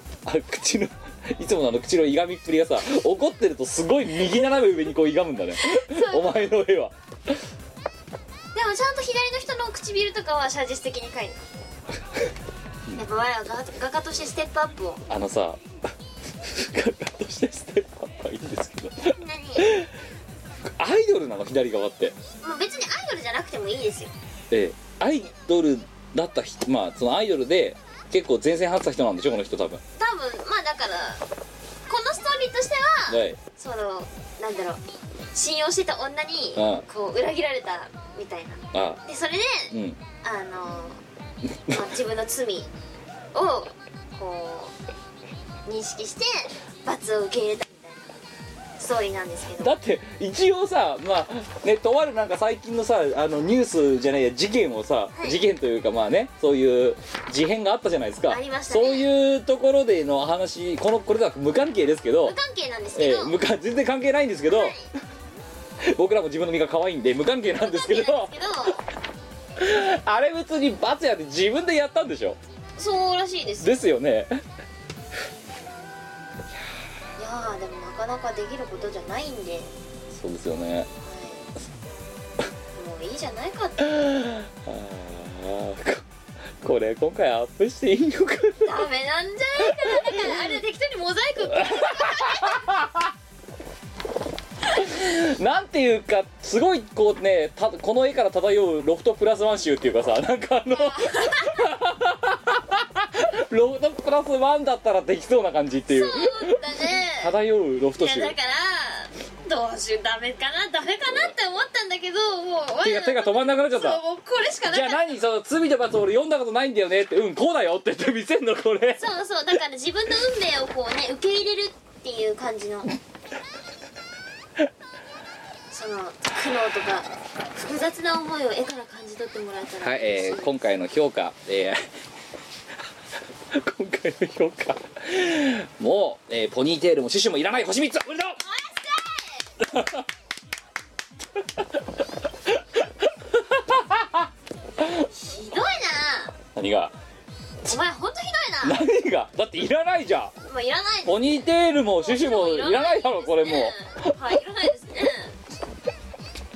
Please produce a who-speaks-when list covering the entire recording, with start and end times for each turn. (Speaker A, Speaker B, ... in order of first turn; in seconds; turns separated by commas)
Speaker A: 0.2-7.4, Speaker B: 5.6-6.5, Speaker B: 8.5-11.4, Speaker B: 12.9-15.0, Speaker A: 15.1-15.6, Speaker A: 16.4-19.9, Speaker B: 19.1-19.7, Speaker A: 20.8-22.1, Speaker B: 22.4-24.1, Speaker A: 24.5-29.8, Speaker B: 30.0-31.2, Speaker B: 31.9-34.8, Speaker A: 33.1-33.4, Speaker B: 35.3-41.0, Speaker A: 36.5-36.8, Speaker A: 38.7-39.0, Speaker A: 39.7-40.0, Speaker B: 41.7-42.7, Speaker B: 43.3-44.7, Speaker B: 45.6-48.2, Speaker B: 48.8-49.7, Speaker A: 49.6-62.4, Speaker B: 55.1-55.4, Speaker B: 58.3-59.1, Speaker B: 62.2-63.4, Speaker A: 62.9-64.8, Speaker B: 64.5-64.9, Speaker A: 65.8-68.3, Speaker B: 67.6-68.8, Speaker A: 69.6-72.4, Speaker B: 72.8-73.9, Speaker A: 73.6-74.4, Speaker B: 77.2-79.7, Speaker A: 80.1-80.9, Speaker B: 81.0-81.5, Speaker B: 82.8-84.0, Speaker A: 83.9-86.0, Speaker A: 86.6-88.8, Speaker B: 88.6-92.8, Speaker A: 89.6-90.6, Speaker A: 91.5-93.1, Speaker A: 94.7-108.3, Speaker B: 100.7-101.7, Speaker B: 105.9-107.3, Speaker B: 108.0-115.2, Speaker A: 112.8-114.0, Speaker A: 114.7-119.0, Speaker B: 119.0-122.9, Speaker B: 125.7-130.7, Speaker A: 129.8-131.8, Speaker A: 133.5-138.4, Speaker B: 138.4-139.5, Speaker A: 139.6-140.1, Speaker A: 142.4-144.3, Speaker A: 144.8-145.1, Speaker B: 145.1-146.3, Speaker A: 146.5-146.9, Speaker B: 147.6-148.8, Speaker A: 148.6-150.3, Speaker B: 150.4-151.3, Speaker A: 151.0-154.2, Speaker B: 151.9-155.3